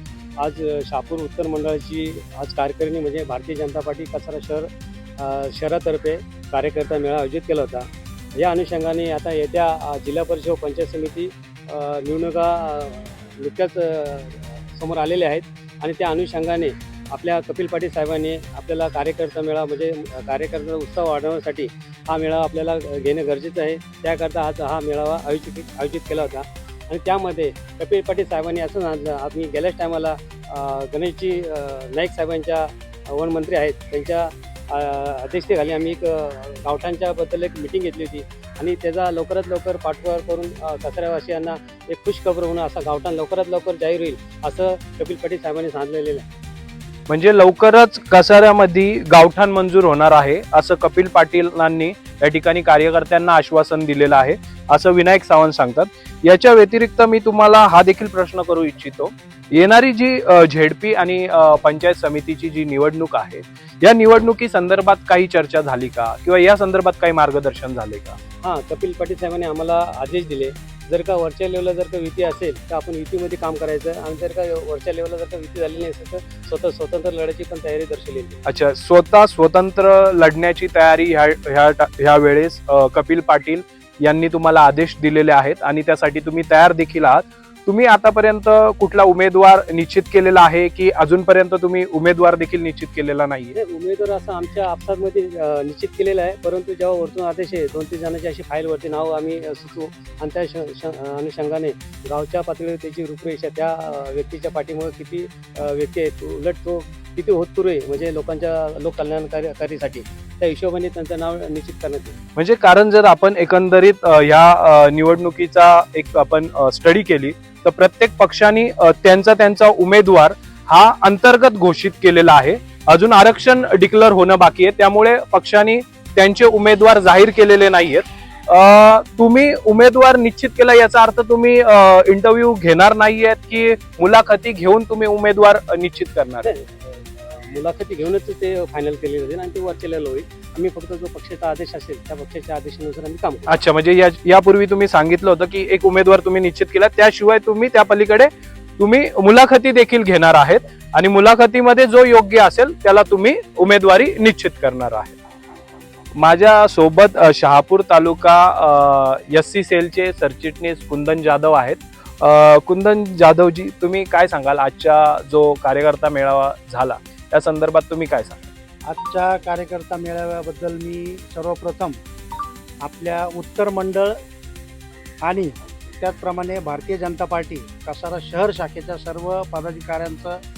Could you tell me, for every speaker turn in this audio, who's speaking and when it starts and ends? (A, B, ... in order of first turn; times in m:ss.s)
0:00.4-0:46.3 A
0:47.1-1:08.2 B
1:08.4-1:18.4 A
1:18.5-1:33.6 B
1:33.6-1:52.2 A
1:52.4-2:16.5 B
2:16.4-2:23.6 A
2:23.5-2:35.2 B
2:36.2-2:48.5 B
2:48.9-2:52.0 C
2:52.8-2:54.2 C
2:55.2-3:00.4 C